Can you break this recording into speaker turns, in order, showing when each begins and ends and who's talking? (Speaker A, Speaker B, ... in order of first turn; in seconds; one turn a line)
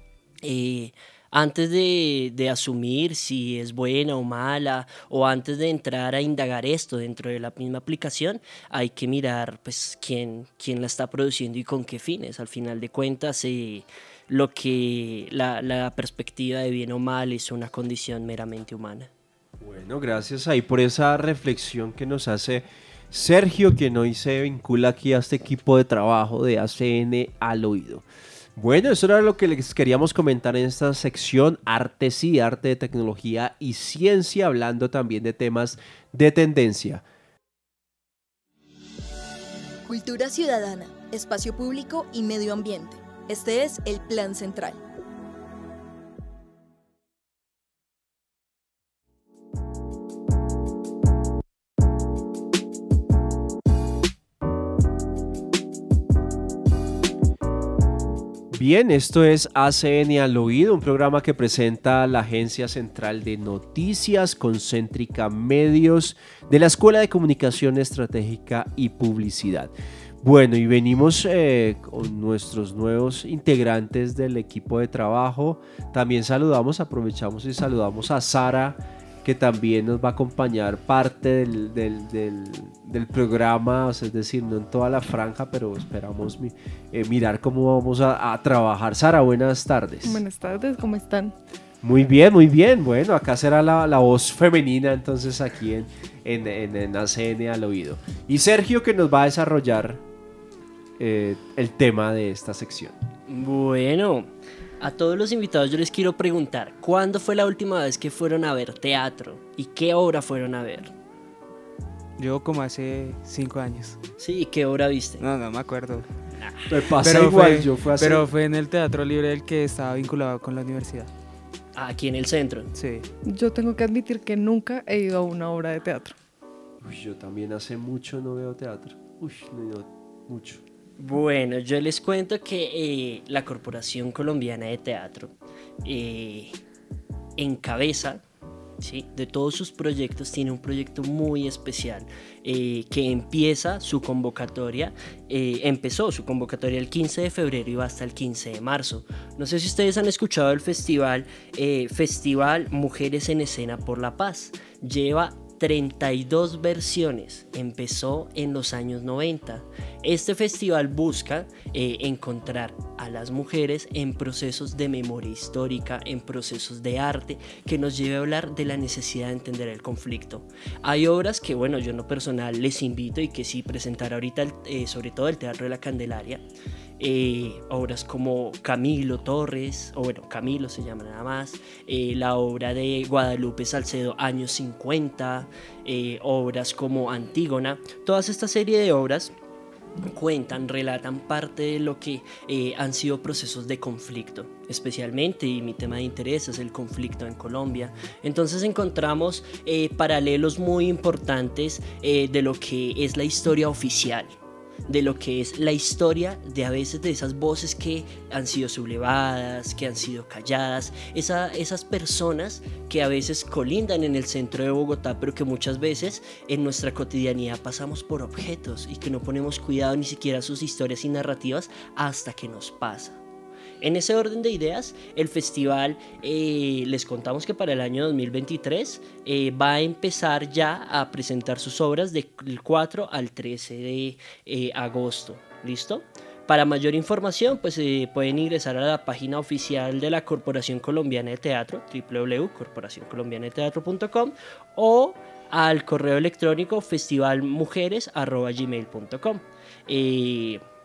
Speaker A: 0.4-19.1
Speaker B: 19.6-37.0
Speaker C: 39.9-44.8
Speaker B: 58.5-90.2
Speaker D: 90.0-91.3
Speaker B: 91.8-100.0
Speaker B: 101.0-103.0
Speaker A: 103.3-104.3
Speaker A: 104.8-111.0
Speaker E: 112.2-114.0
Speaker A: 114.2-115.2
Speaker E: 115.2-116.1
Speaker B: 116.7-118.2
Speaker E: 117.0-121.1
Speaker A: 121.8-122.7
Speaker E: 122.8-123.1
Speaker D: 123.3-126.2
Speaker B: 126.8-130.6
Speaker A: 131.0-136.6
Speaker A: 137.4-138.2
Speaker A: 138.8-176.4
Speaker A: 177.0-189.3
Speaker A: 190.0-223.2
Speaker A: 223.8-250.6